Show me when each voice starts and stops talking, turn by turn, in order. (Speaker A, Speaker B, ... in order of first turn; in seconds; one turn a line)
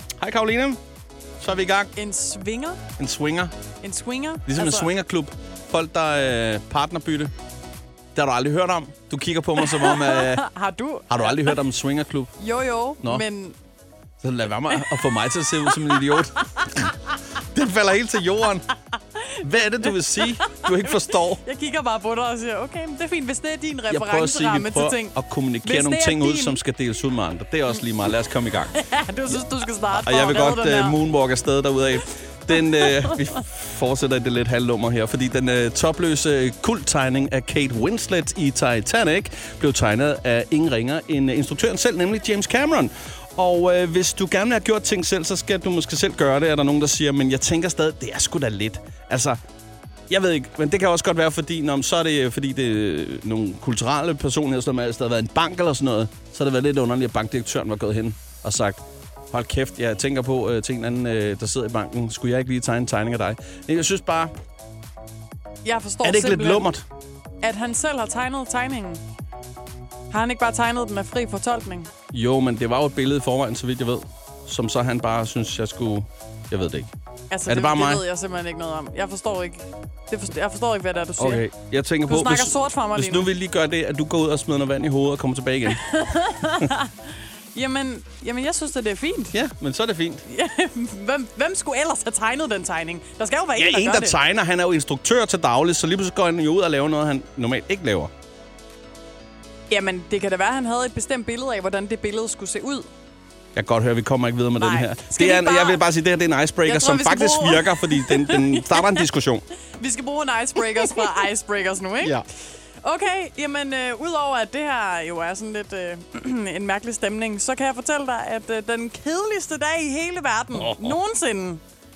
Speaker A: 0.2-0.8
Speaker A: 1.4-1.9
Speaker B: 1.9-2.8
Speaker A: 3.0-3.5
Speaker B: 3.8-4.9
Speaker A: 4.5-7.3
Speaker A: 8.1-10.4
Speaker B: 9.6-11.6
Speaker A: 11.1-12.3
Speaker B: 12.4-13.6
Speaker A: 14.2-18.7
Speaker B: 14.7-16.8
Speaker B: 19.2-26.6
Speaker A: 19.4-21.4
Speaker A: 23.9-29.4
Speaker B: 28.7-31.0
Speaker A: 29.9-49.4
Speaker B: 32.7-33.2
Speaker A: 50.1-64.3
Speaker B: 65.6-66.7
Speaker A: 66.0-66.8
Speaker B: 67.4-69.0
Speaker B: 70.1-71.9
Speaker A: 72.1-76.9
Speaker B: 77.3-81.4
Speaker A: 77.5-78.0
Speaker A: 81.2-85.9
Speaker B: 82.0-83.3
Speaker B: 85.7-89.4
Speaker A: 89.3-90.2
Speaker B: 90.2-94.2
Speaker A: 93.5-98.1
Speaker B: 99.7-102.9
Speaker A: 103.5-109.4
Speaker B: 104.6-105.8
Speaker B: 106.6-109.1
Speaker B: 109.8-112.2
Speaker B: 112.8-121.6
Speaker A: 120.5-121.0